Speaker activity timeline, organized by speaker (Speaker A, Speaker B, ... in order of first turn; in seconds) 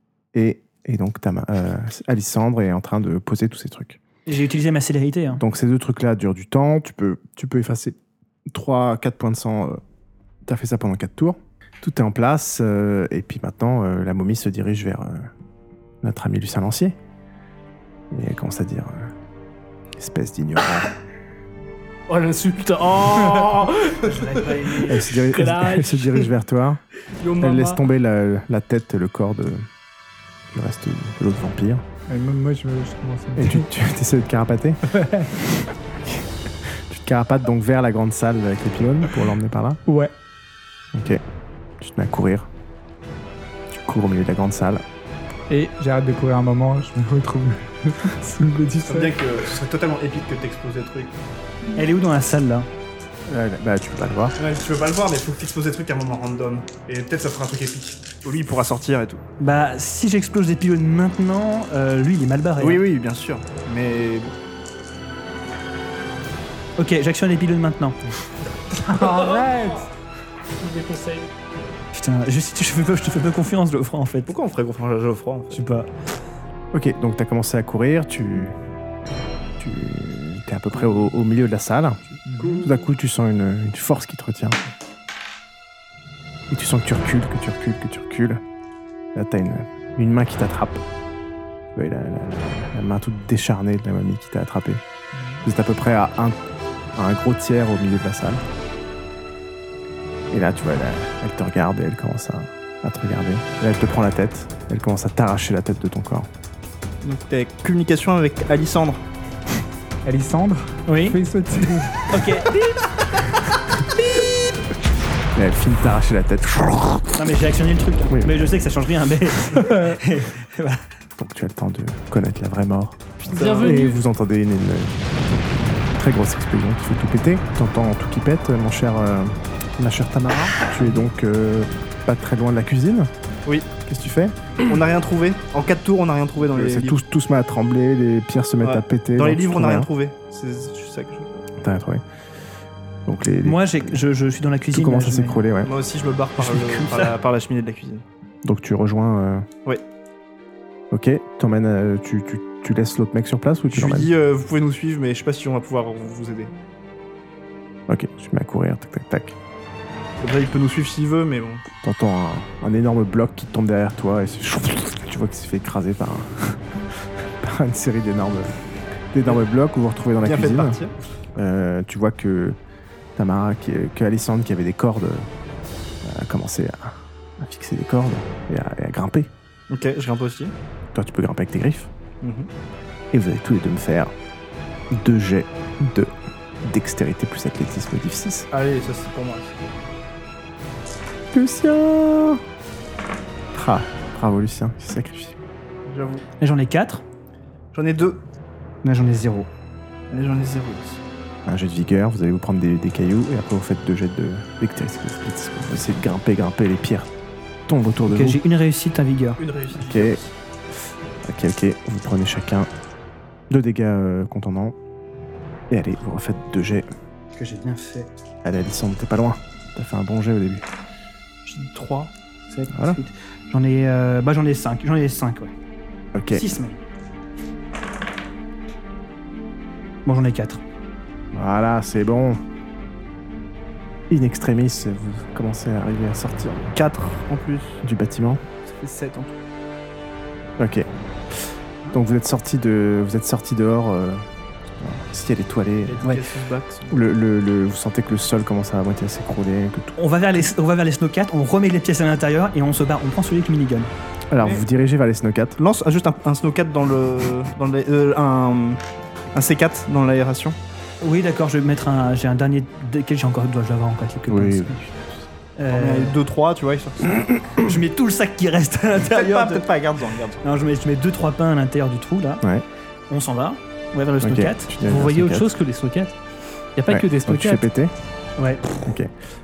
Speaker A: 0.3-4.0, 5.4-8.0, 8.5-9.8, 10.4-15.3, 16.0-16.9, 18.1-19.1, 20.0-20.9, 24.9-26.8, 27.4-29.7, 30.5-31.8, 33.4-39.8, 40.9-41.2, 41.8-42.5, 43.7-44.8, 53.3-54.4, 76.7-78.6, 79.6-84.6, 86.5-88.4, 89.1-90.8, 91.7-94.8, 95.4-96.4, 96.9-98.4, 100.3-106.3, 115.3-117.2, 118.1-118.4, 121.2-133.1, 133.9-134.5, 136.4-139.9, 141.6-142.0, 143.1-144.0, 144.7-145.7, 148.4-149.5, 150.9-154.1, 157.9-159.3, 161.8-168.6, 169.1-170.8, 171.3-172.6, 173.2-175.3, 176.0-179.3, 180.9-181.9, 183.1-184.1, 184.9-186.1, 186.6-188.5, 191.3-192.4, 193.5-195.4, 201.4-207.1, 207.7-208.4, 209.7-210.2, 211.2-212.7, 213.5-214.8, 215.7-216.9, 218.4-220.6, 222.7-223.0, 226.1-226.4, 231.3-232.4, 234.1-236.8, 237.8-238.4, 240.6-244.2, 244.8-246.0, 246.9-249.9, 254.3-255.6, 264.3-265.2, 274.2-275.5, 276.9-277.9, 278.8-279.1
Speaker B: 4.3-5.4, 24.0-25.0, 51.8-52.7, 59.4-62.8, 66.8-68.0, 71.9-74.3, 75.5-75.9, 110.9-111.2, 112.1-112.6, 117.2-120.8, 143.4-145.4, 146.4-147.2, 196.4-197.0, 198.8-199.5, 208.1-209.4, 217.3-218.1, 222.5-225.5, 226.3-226.8, 230.0-230.6, 249.9-253.9, 261.0-264.8, 265.6-266.2, 267.6-269.6, 270.4-272.4, 273.1-274.8, 278.4-278.6
Speaker C: 22.1-26.3, 27.2-27.8, 68.9-69.8, 70.6-71.3, 123.3-124.0, 274.8-276.2, 276.8-277.7
Speaker D: 32.1-33.6, 34.9-35.3, 39.9-40.1, 45.5-49.2, 68.7-69.9, 110.0-112.3, 119.6-120.0
Speaker E: 48.8-51.1, 54.4-59.2, 62.6-64.3, 74.3-75.6, 82.4-82.8, 107.0-109.0, 123.3-123.7, 134.6-137.0, 138.6-141.5, 145.6-148.0, 153.7-156.5, 160.2-161.6, 170.2-170.9, 179.7-180.5, 182.2-182.5, 188.5-189.6, 195.8-196.2, 197.7-198.2, 200.1-201.0, 209.4-210.3, 221.4-222.1, 236.7-237.8, 238.6-239.3, 245.9-247.0, 254.4-254.6, 255.6-258.8, 259.3-260.6, 265.7-267.4, 269.1-270.4